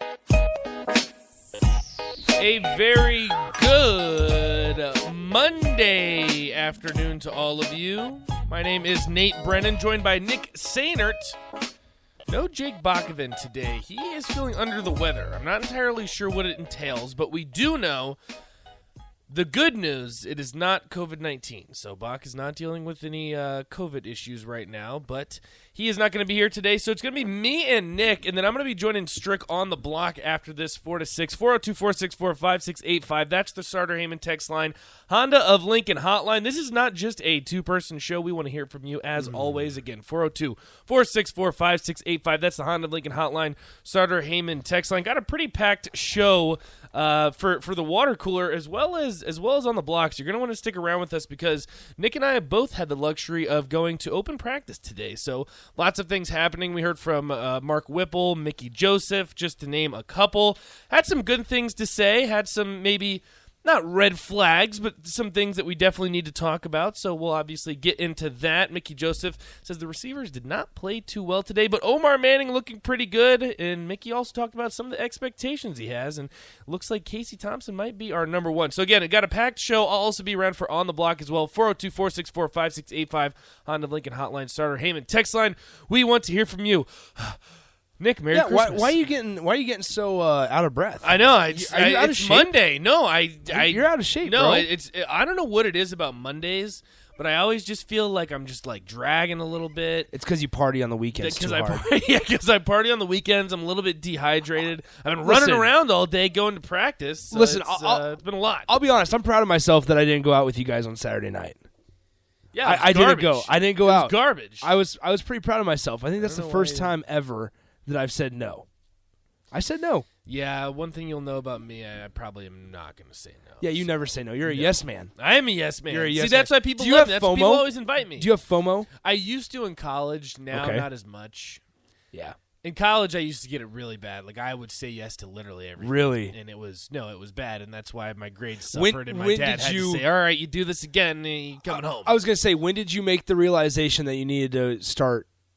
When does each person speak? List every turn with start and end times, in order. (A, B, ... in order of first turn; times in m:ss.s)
0:02.4-0:11.4 A
0:12.3-0:18.2 A
0:19.3-1:27.4 A
0:39.2-0:39.6 B
1:28.0-1:29.0 A
1:28.3-1:32.5 B
1:31.0-1:40.1 A
1:33.5-1:34.7 B
1:40.1-1:41.8 B
1:41.2-1:48.7 A
1:45.2-1:45.7 B
1:47.3-1:48.0 B
1:48.7-1:51.6 B
1:52.5-1:54.7 A
1:52.6-1:58.7 B
1:56.2-1:56.9 A
1:59.5-2:00.0 B
2:00.2-2:03.9 A
2:03.6-2:05.1 B
2:04.4-2:08.3 A
2:05.9-2:08.9 B
2:09.0-2:11.6 A
2:10.5-2:10.8 B
2:12.6-2:22.2 A
2:15.8-2:16.3 B
2:18.7-2:20.0 B
2:21.7-2:25.3 B